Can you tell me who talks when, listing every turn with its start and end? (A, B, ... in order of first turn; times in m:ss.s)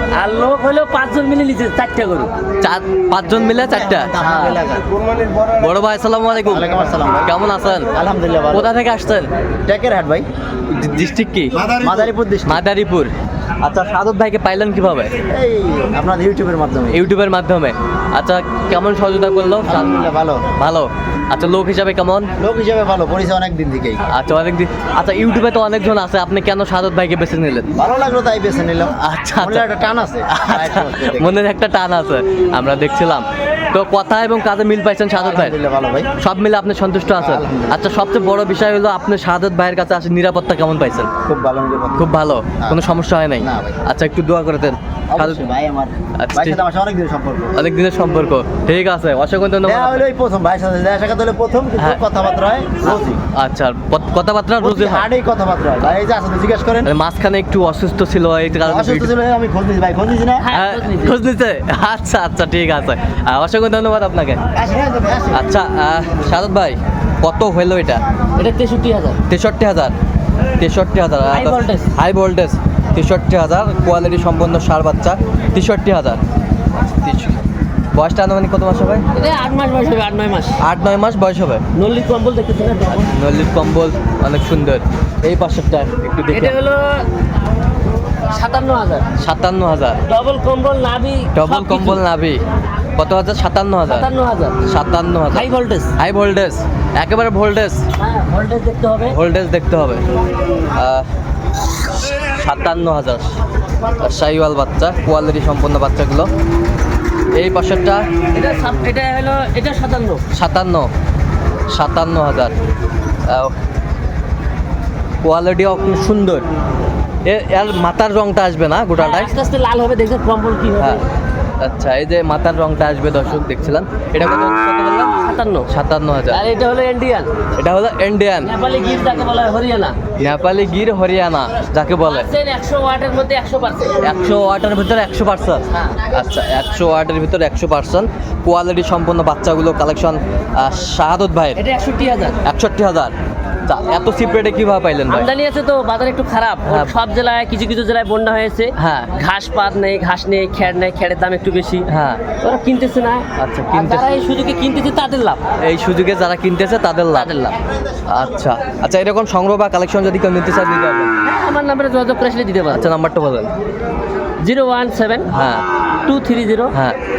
0:00.1-0:02.3 A
0:02.6-0:04.5 B
0:03.9-0:04.9 C
0:05.6-0:06.7 B
0:06.4-0:07.4 C
0:07.2-0:07.9 B
0:07.9-0:08.7 C
0:08.5-0:09.3 B
0:09.7-0:10.3 C
0:10.7-0:11.6 B
0:11.6-0:12.6 C
0:12.4-0:15.1 B
0:15.3-0:17.0 C
0:16.9-0:20.0 B
0:19.7-0:20.4 C
0:20.6-0:22.3 B
0:22.4-0:24.0 C
0:24.0-0:27.7 B
0:27.8-0:31.3 C
0:29.0-0:29.7 B
0:30.3-0:35.6 B
0:35.2-0:36.1 C
0:36.2-0:41.1 B
0:37.2-0:37.7 C
0:41.2-0:42.1 C
0:42.0-0:45.5 B
0:43.4-0:43.8 C
0:45.1-0:47.6 C
0:46.2-0:46.6 B
0:47.5-0:50.0 B
0:49.6-0:53.2 C
0:52.9-0:55.1 B
0:54.6-0:56.9 C
0:56.8-0:59.1 B
0:58.6-1:00.4 C
1:00.4-1:01.2 A
1:00.5-1:04.4 B
1:04.5-1:05.4 C
1:05.3-1:08.0 B
1:08.4-1:09.2 A
1:09.3-1:09.9 B
1:10.6-1:16.2 B
1:11.3-1:11.9 A
1:16.9-1:17.4 B
1:17.9-1:19.0 B
1:19.1-1:20.6 A
1:20.6-1:21.6 B
1:21.7-1:23.2 A
1:22.9-1:26.6 B
1:26.3-1:27.1 A
1:28.3-1:29.0 A
1:29.2-1:30.0 B
1:30.1-1:32.0 A
1:31.3-1:32.4 B
1:33.0-1:34.1 B
1:33.9-1:34.6 A
1:34.6-1:37.8 B
1:35.3-1:35.9 A
1:38.0-1:39.2 A
1:39.1-1:40.0 B
1:40.7-1:41.1 B
1:42.0-1:43.4 B
1:44.0-1:46.3 B
1:47.3-1:48.0 B
1:48.3-1:50.2 A
1:50.3-1:50.9 B
1:51.7-1:52.5 B
1:53.3-1:53.5 B
1:55.2-1:56.4 B
1:57.2-1:59.4 B
1:59.0-2:01.0 A
2:01.6-2:05.1 B
2:05.2-2:05.7 A
2:05.7-2:06.4 B
2:06.3-2:07.3 A
2:07.6-2:08.5 B
2:08.4-2:10.0 A
2:10.2-2:12.3 B
2:12.0-2:14.1 A
2:14.0-2:21.6 B
2:21.6-2:22.4 A
2:22.4-2:23.1 B
2:23.6-2:25.3 B
2:25.1-2:35.4 A
2:26.7-2:26.9 B
2:28.8-2:29.1 B
2:31.9-2:32.2 B
2:33.4-2:34.1 B
2:35.6-2:37.3 B
2:37.1-2:37.6 A
2:38.1-2:41.1 B
2:41.2-2:42.9 A
2:42.7-2:43.5 B
2:44.4-2:45.3 A
2:45.3-2:45.6 B
2:46.0-2:46.7 A
2:46.7-2:47.0 B